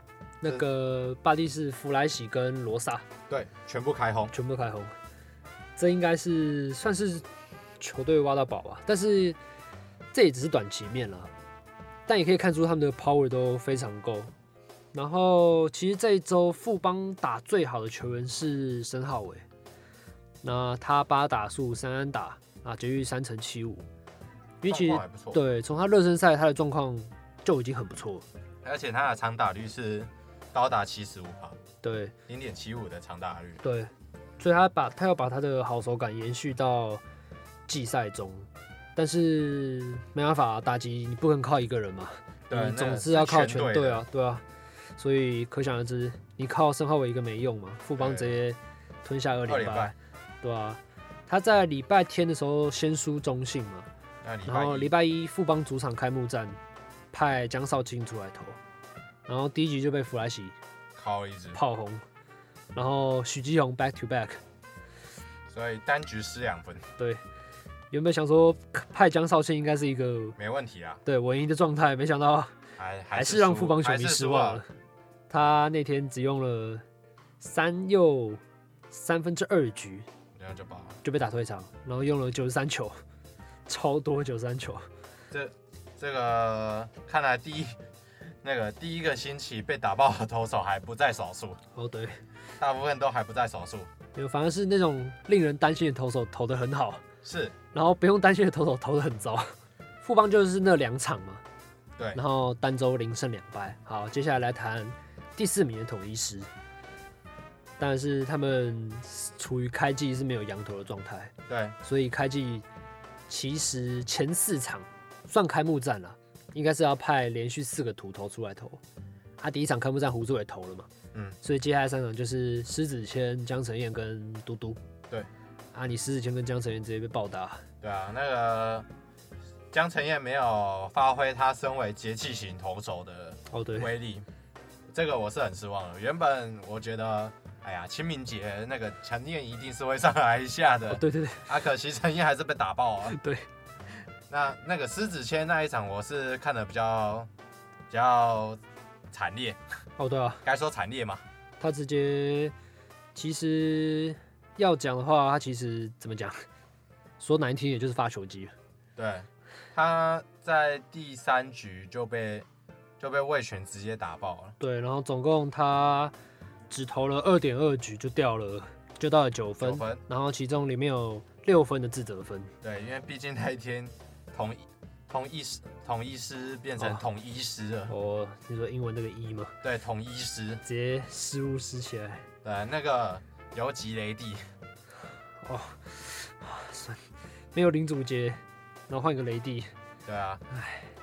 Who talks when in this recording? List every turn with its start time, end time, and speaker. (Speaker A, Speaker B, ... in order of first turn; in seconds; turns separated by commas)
Speaker A: 0.4-3.0, Speaker B: 3.3-4.3, Speaker A: 4.3-4.9, Speaker A: 5.8-7.3, Speaker A: 7.8-9.4, Speaker A: 10.1-11.3, Speaker A: 12.1-14.3, Speaker A: 14.9-19.4, Speaker A: 20.4-23.8, Speaker A: 24.6-28.2, Speaker B: 24.7-25.4, Speaker B: 28.6-31.6, Speaker A: 31.8-32.1, Speaker B: 32.3-33.6, Speaker A: 33.6-37.0, Speaker A: 37.7-44.4, Speaker B: 42.5-44.0, Speaker A: 45.0-53.9, Speaker B: 48.0-48.4, Speaker B: 49.5-49.9, Speaker B: 54.2-54.9, Speaker A: 54.5-56.6, Speaker A: 57.1-58.6, Speaker A: 59.3-60.5, Speaker B: 61.0-61.6, Speaker A: 61.5-62.0, Speaker A: 62.7-64.4, Speaker B: 65.5-66.9, Speaker A: 67.9-70.4, Speaker B: 70.4-71.0, Speaker A: 71.0-72.5, Speaker B: 72.8-74.6, Speaker A: 73.1-74.7, Speaker A: 75.3-76.8, Speaker A: 77.4-80.1, Speaker B: 80.3-81.0, Speaker A: 81.0-83.0, Speaker A: 83.7-84.9, Speaker B: 85.3-87.8, Speaker B: 88.4-91.6, Speaker A: 91.7-92.2, Speaker B: 92.6-93.9, Speaker A: 94.1-97.0, Speaker B: 97.2-97.5, Speaker A: 97.7-101.4, Speaker A: 102.1-106.5, Speaker A: 107.8-112.7, Speaker B: 111.5-111.8, Speaker A: 113.3-118.8, Speaker A: 119.4-120.9, Speaker B: 121.1-121.4, Speaker A: 121.4-124.8, Speaker A: 125.7-127.6, Speaker B: 127.8-128.9, Speaker B: 129.7-134.2, Speaker A: 133.5-133.9, Speaker B: 134.9-143.2, Speaker A: 140.9-141.5, Speaker A: 143.1-143.5, Speaker B: 144.3-147.3, Speaker B: 147.9-149.6, Speaker A: 150.0-150.4, Speaker B: 150.4-151.2, Speaker A: 151.6-152.5, Speaker A: 153.1-156.4, Speaker A: 157.2-158.5, Speaker B: 158.9-162.5, Speaker B: 163.0-164.6, Speaker A: 164.6-166.1, Speaker A: 166.7-172.5, Speaker B: 169.6-170.0, Speaker B: 172.6-177.9, Speaker A: 176.8-177.0, Speaker A: 177.9-179.5, Speaker B: 179.6-180.6, Speaker A: 180.6-182.2, Speaker B: 182.4-184.5, Speaker A: 185.4-187.0, Speaker A: 187.5-189.7, Speaker B: 190.0-190.4, Speaker A: 190.5-190.9